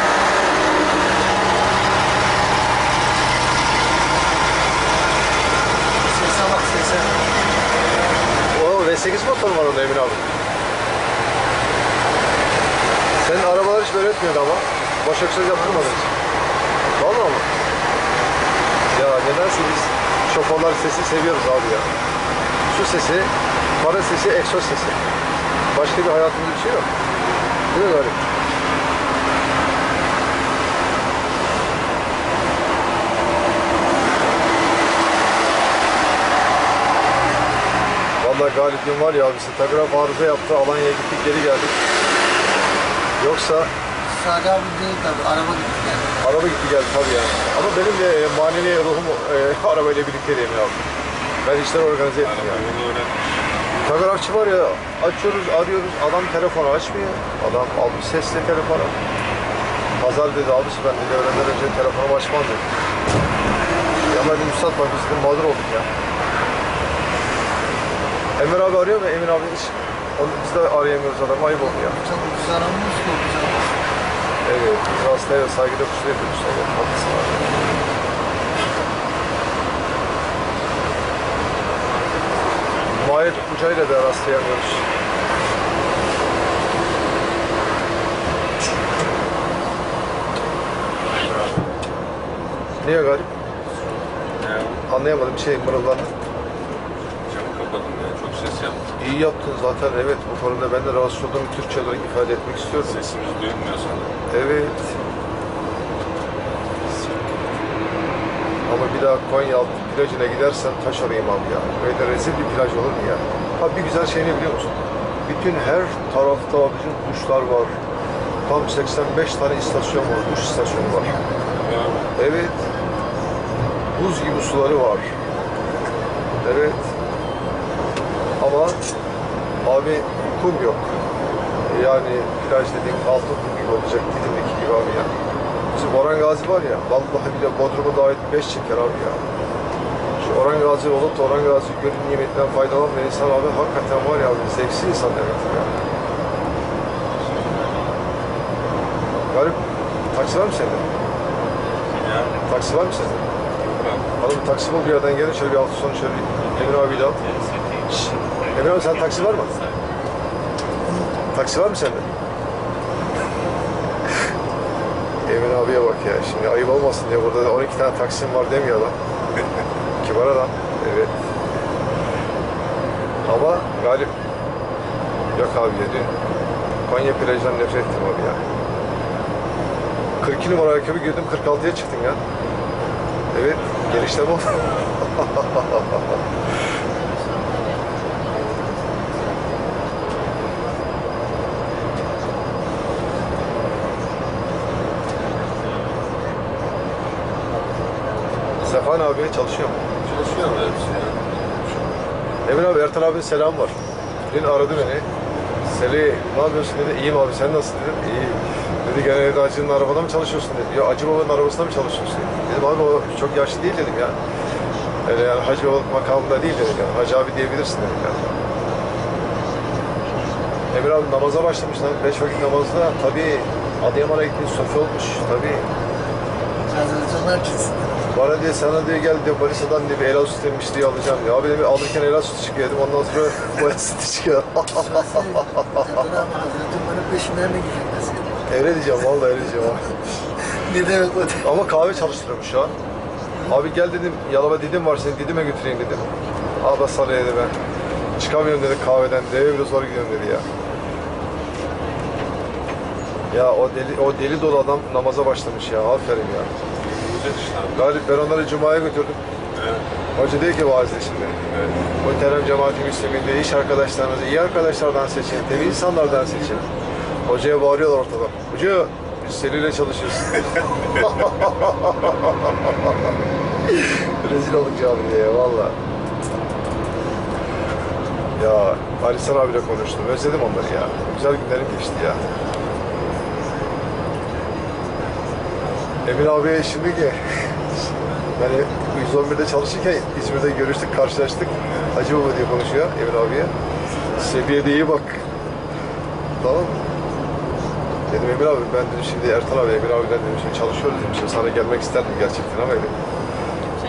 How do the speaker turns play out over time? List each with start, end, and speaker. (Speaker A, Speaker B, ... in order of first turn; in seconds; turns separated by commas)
Speaker A: 6.0-7.1, Speaker B: 8.5-10.3, Speaker B: 13.2-16.1, Speaker B: 17.0-17.5, Speaker B: 18.9-21.9, Speaker B: 22.7-25.0, Speaker B: 25.7-26.9, Speaker B: 27.7-28.2, Speaker B: 38.2-41.8, Speaker B: 43.2-43.7, Speaker A: 44.1-46.2, Speaker B: 46.2-50.8, Speaker B: 51.4-52.6, Speaker C: 52.2-53.2, Speaker B: 53.8-58.9, Speaker B: 60.0-62.7, Speaker B: 64.0-65.9, Speaker B: 68.4-72.0, Speaker A: 71.6-73.8, Speaker B: 74.5-77.5, Speaker B: 82.9-84.8, Speaker B: 92.8-93.3, Speaker C: 94.4-94.8, Speaker B: 94.9-96.1, Speaker C: 97.3-98.9, Speaker B: 99.0-103.0, Speaker C: 102.8-104.1, Speaker B: 104.3-104.9, Speaker B: 108.7-114.7, Speaker B: 115.3-117.7, Speaker B: 118.5-121.2, Speaker C: 121.6-122.1, Speaker B: 122.2-122.6, Speaker B: 124.0-125.1, Speaker B: 126.4-126.8, Speaker B: 128.4-128.8, Speaker B: 129.6-130.9, Speaker B: 131.7-135.1, Speaker B: 135.7-139.2, Speaker B: 140.2-145.7, Speaker B: 149.3-149.6, Speaker B: 150.1-150.8, Speaker C: 152.0-152.4, Speaker B: 152.5-153.2, Speaker C: 153.7-154.1, Speaker B: 154.2-157.2, Speaker B: 158.5-159.5, Speaker B: 161.3-162.1, Speaker B: 165.3-168.9, Speaker B: 170.0-171.1, Speaker B: 173.3-174.1, Speaker B: 175.3-176.1, Speaker B: 176.9-178.4, Speaker B: 180.2-182.2, Speaker B: 183.3-186.0, Speaker B: 198.6-199.8, Speaker C: 200.1-201.2, Speaker B: 202.5-203.8, Speaker B: 204.3-205.1, Speaker B: 205.7-214.2, Speaker B: 215.1-218.3, Speaker B: 220.7-225.7, Speaker A: 226.7-228.1, Speaker B: 228.1-235.8, Speaker A: 234.7-238.5, Speaker B: 238.5-239.9, Speaker A: 240.5-241.6, Speaker B: 241.4-242.7, Speaker B: 243.5-246.1, Speaker B: 246.6-247.5, Speaker B: 248.2-250.4, Speaker B: 253.3-256.5, Speaker C: 256.8-257.9, Speaker B: 257.8-259.2, Speaker C: 259.6-259.8, Speaker B: 260.2-261.4, Speaker C: 261.4-261.8, Speaker B: 262.0-266.7, Speaker B: 267.3-272.5, Speaker B: 273.7-275.8, Speaker B: 278.4-282.2, Speaker B: 286.1-287.2, Speaker B: 288.4-293.5, Speaker B: 294.1-295.2, Speaker B: 296.4-296.8, Speaker B: 298.1-302.9